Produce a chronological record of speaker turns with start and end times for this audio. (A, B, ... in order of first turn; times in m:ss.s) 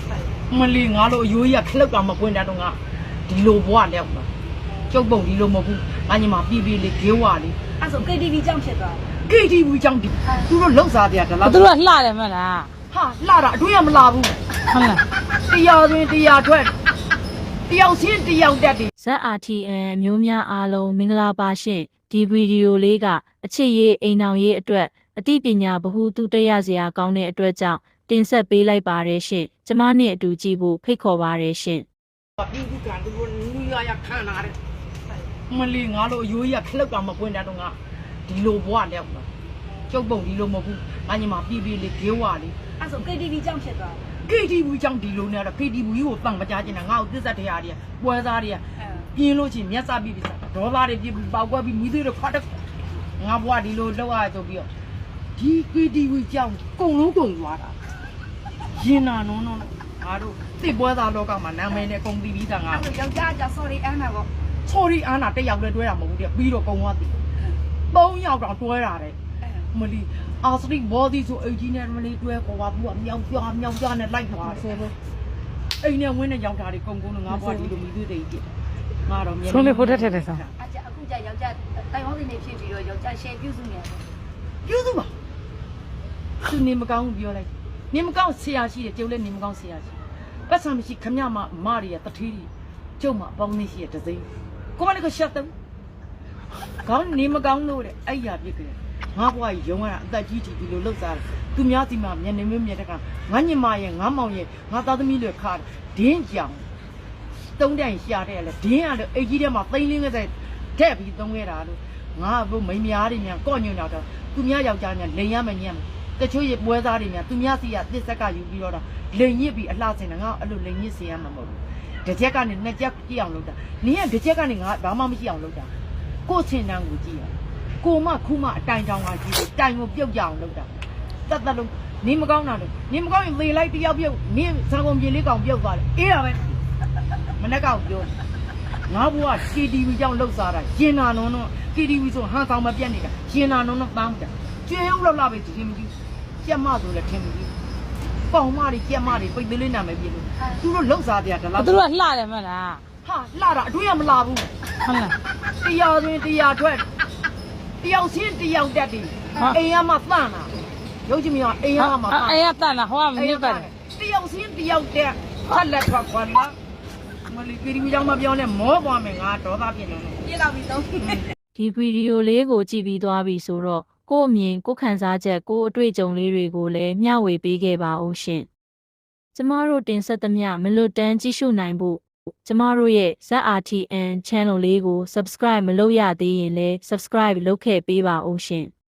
0:00.5-0:04.3 A
0:04.9-0:07.8 A
0:07.8-0:09.0 B
0:09.1-0:11.7 A
0:11.4-0:12.7 C
0:12.9-0:14.4 A
0:14.7-0:15.0 C
0:15.5-0:16.7 A
0:17.7-0:18.9 A
0:19.0-0:31.8 D
0:32.4-0:34.5 A
0:35.5-0:39.3 A
0:39.9-0:42.6 A
0:42.8-0:44.0 B
0:44.2-0:48.6 A
0:48.8-0:49.0 B
0:49.1-0:52.6 A
0:53.2-0:54.7 A
0:55.4-0:57.8 A
0:58.7-1:02.9 A
1:02.7-1:04.3 B
1:04.6-1:07.2 A
1:07.9-1:09.2 A
1:09.7-1:14.9 A
1:15.8-1:18.5 A
1:19.0-1:20.5 A
1:19.4-1:20.4 C
1:20.6-1:24.0 B
1:24.6-1:25.1 A
1:26.4-1:30.0 A
1:30.5-1:35.5 A
1:36.8-1:46.6 A
1:47.6-2:05.7 A
2:06.2-2:10.7 A
2:11.3-2:16.6 A
2:17.4-2:18.1 A
2:18.9-2:27.5 A
2:28.3-2:31.8 A
2:31.6-2:32.8 C
2:33.0-2:34.5 A
2:34.8-2:35.2 C
2:35.6-2:36.8 A
2:37.8-2:40.5 A
2:41.0-2:42.5 A
2:41.8-2:43.7 C
2:43.1-2:46.5 A
2:47.3-2:50.2 A
2:50.3-2:51.2 B
2:51.6-2:58.5 D
2:59.3-3:08.7 D